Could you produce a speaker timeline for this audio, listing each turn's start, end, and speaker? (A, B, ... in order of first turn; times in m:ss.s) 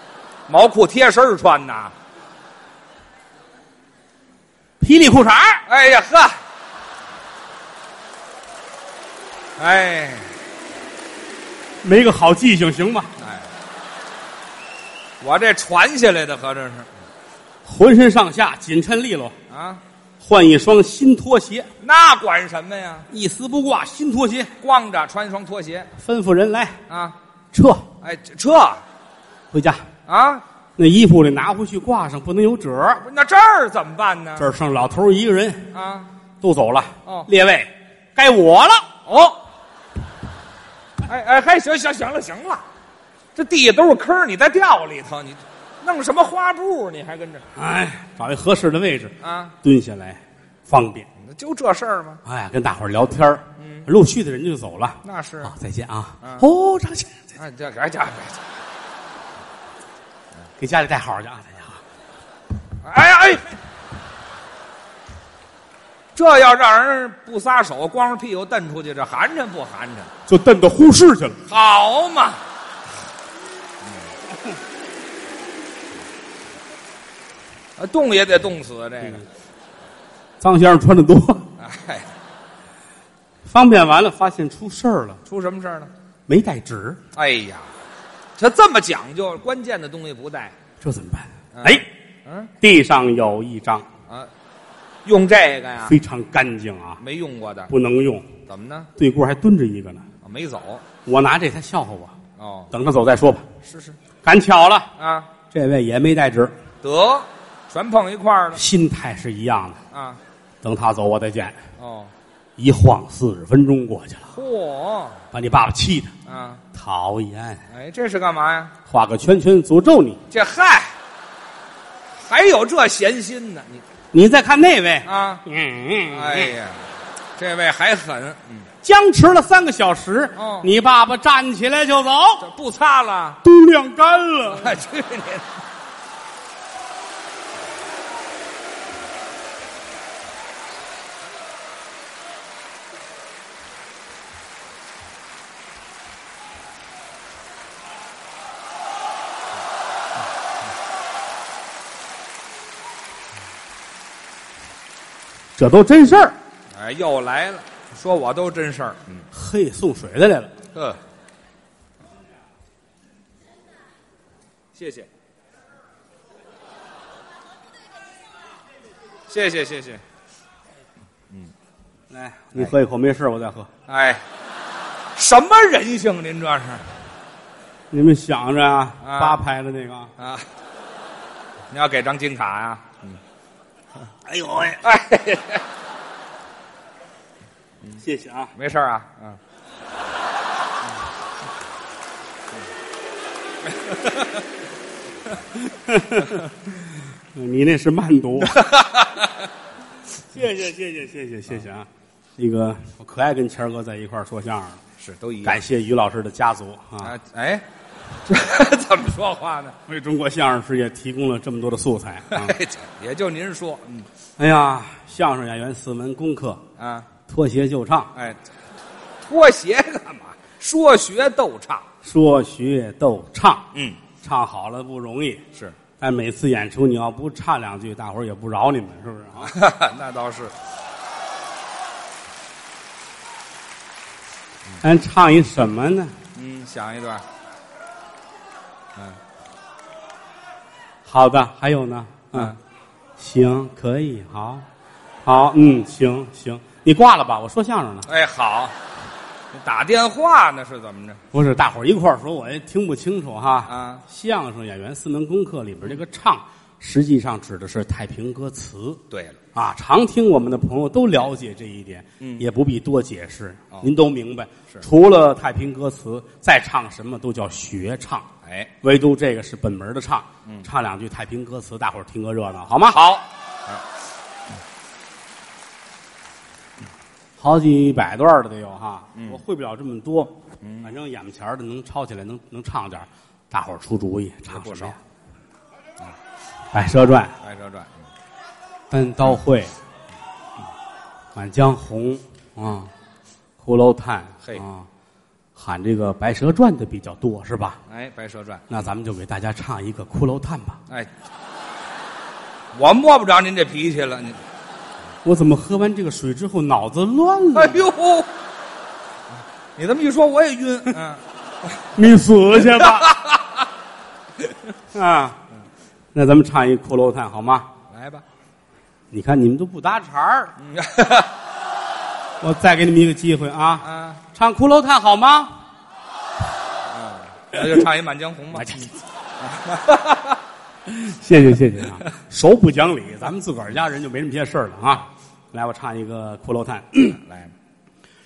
0:00.5-0:01.9 A
0:04.8-0:05.6 B
0:05.7-0:06.4 A
0:09.6-0:10.3 A
0:11.8-0:13.1 B
0:13.2-0:13.5 A
0:15.2-0:16.9 A
0:17.6-0:19.4 B
0:19.5-0:19.8 A
0:20.2-0:21.7 B
0:21.8-0:23.1 A
0:23.1-0:24.5 B
0:24.6-0:25.9 A
0:26.0-0:26.8 B
0:26.9-0:27.2 A
0:27.5-0:27.9 B
0:28.0-0:28.8 A
0:29.5-0:29.8 B
0:30.1-0:30.4 A
0:30.8-0:33.0 B
0:33.0-0:34.5 A
0:34.4-0:35.7 B
0:35.7-0:36.1 A
0:36.4-0:38.9 B
0:39.0-0:39.4 A
0:41.0-0:42.6 A
0:43.4-0:47.5 A
0:47.6-0:51.1 B
0:49.2-0:49.6 A
0:51.2-0:52.2 A
0:52.2-0:57.2 B
0:53.6-0:53.9 A
0:55.0-0:55.5 A
0:56.2-0:56.5 A
0:57.4-0:58.5 A
1:00.6-1:01.8 B
1:02.8-1:03.6 A
1:06.2-1:10.1 A
1:10.3-1:11.4 B
1:11.5-1:12.4 A
1:17.8-1:19.2 A
1:20.4-1:21.5 B
1:21.6-1:22.1 A
1:23.4-1:25.2 B
1:25.3-1:25.9 A
1:26.3-1:27.0 B
1:27.1-1:27.7 A
1:28.4-1:30.6 A
1:30.8-1:31.9 B
1:31.5-1:32.5 A
1:32.6-1:33.9 B
1:35.0-1:36.0 A
1:35.8-1:37.0 B
1:37.0-1:37.7 A
1:37.7-1:38.3 B
1:38.5-1:38.9 A
1:39.0-1:40.0 B
1:40.2-1:40.8 A
1:41.0-1:42.2 B
1:42.4-1:42.7 A
1:42.7-1:43.5 B
1:43.6-1:44.0 A
1:44.2-1:44.9 B
1:45.0-1:45.3 A
1:45.5-1:46.6 B
1:46.8-1:48.6 A
1:48.5-1:49.8 B
1:49.9-1:50.2 A
1:50.6-1:51.6 B
1:51.8-1:52.1 A
1:52.6-1:54.3 B
1:54.3-1:55.2 A
1:55.3-1:56.1 B
1:56.3-1:56.6 A
1:56.7-1:57.6 B
1:57.7-1:58.7 A
1:58.9-2:00.2 B
2:00.3-2:00.9 A
2:02.2-2:03.8 A
2:04.1-2:06.5 B
2:05.0-2:05.4 A
2:06.1-2:06.8 A
2:07.4-2:08.7 A
2:08.8-2:12.4 B
2:10.4-2:10.7 A
2:12.4-2:13.4 A
2:13.4-2:14.8 B
2:14.5-2:15.5 A
2:35.6-2:36.4 B
2:36.7-2:39.3 A
2:39.3-2:40.5 B
2:44.8-2:45.1 A
2:49.3-2:50.0 A
2:52.1-2:53.7 B
2:53.9-2:54.2 A
2:55.2-2:56.9 A
2:57.9-3:00.1 B
2:59.0-2:59.4 A
3:00.2-3:00.5 A
3:01.7-3:03.2 A
3:04.2-3:04.8 B
3:04.8-3:05.6 A
3:08.0-3:08.5 B
3:08.6-3:09.4 A
3:13.8-3:14.3 A
3:15.7-3:16.4 B
3:17.4-3:18.6 B
3:18.5-3:19.3 A
3:20.3-3:21.9 B
3:22.4-3:24.8 B
3:25.0-3:25.6 A
3:25.4-3:27.1 B
3:27.0-3:27.6 A
3:28.3-3:29.8 A
3:29.9-3:32.6 B
3:32.3-3:34.1 A
3:34.4-3:36.6 B
3:36.8-3:37.1 A
3:37.3-3:38.1 B
3:38.2-3:38.4 A
3:39.2-3:41.9 A
3:42.0-3:43.7 B
3:43.8-3:44.0 A
3:44.2-3:45.4 B
3:46.0-3:49.5 B
3:49.4-3:50.6 A
3:54.8-3:56.2 B
3:56.4-3:57.2 A
4:01.1-4:02.6 B
4:03.2-4:04.6 B
4:05.2-4:08.1 B
4:08.1-4:08.8 A
4:09.5-4:11.2 A
4:11.3-4:19.0 B
4:13.7-4:14.0 A
4:19.1-4:19.4 A
4:19.5-4:28.3 B
4:22.2-4:22.5 A
4:28.4-4:28.7 A
4:28.8-4:33.0 B
4:32.9-4:33.8 A
4:37.4-4:45.0 B
4:40.6-4:40.9 A
4:44.5-4:45.0 A
4:46.7-4:47.3 B
4:47.4-4:48.0 A
4:48.9-4:49.7 B
4:51.4-4:52.9 B
4:53.6-4:54.9 B
4:55.6-4:57.8 B
4:57.9-4:58.8 A
4:58.7-5:00.8 B
5:02.7-5:04.4 A
5:05.2-5:07.9 B
5:07.5-5:08.3 A
5:09.8-5:11.8 A
5:12.0-5:13.1 B
5:12.8-5:13.6 A
5:14.9-5:15.4 B
5:16.1-5:17.7 B
5:17.9-5:18.2 A
5:19.1-5:20.5 B
5:20.6-5:21.3 A
5:22.4-5:25.6 B
5:23.8-5:24.2 A
5:26.9-5:30.4 A
5:28.5-5:28.9 B
5:30.9-5:37.2 B
5:37.2-5:37.5 A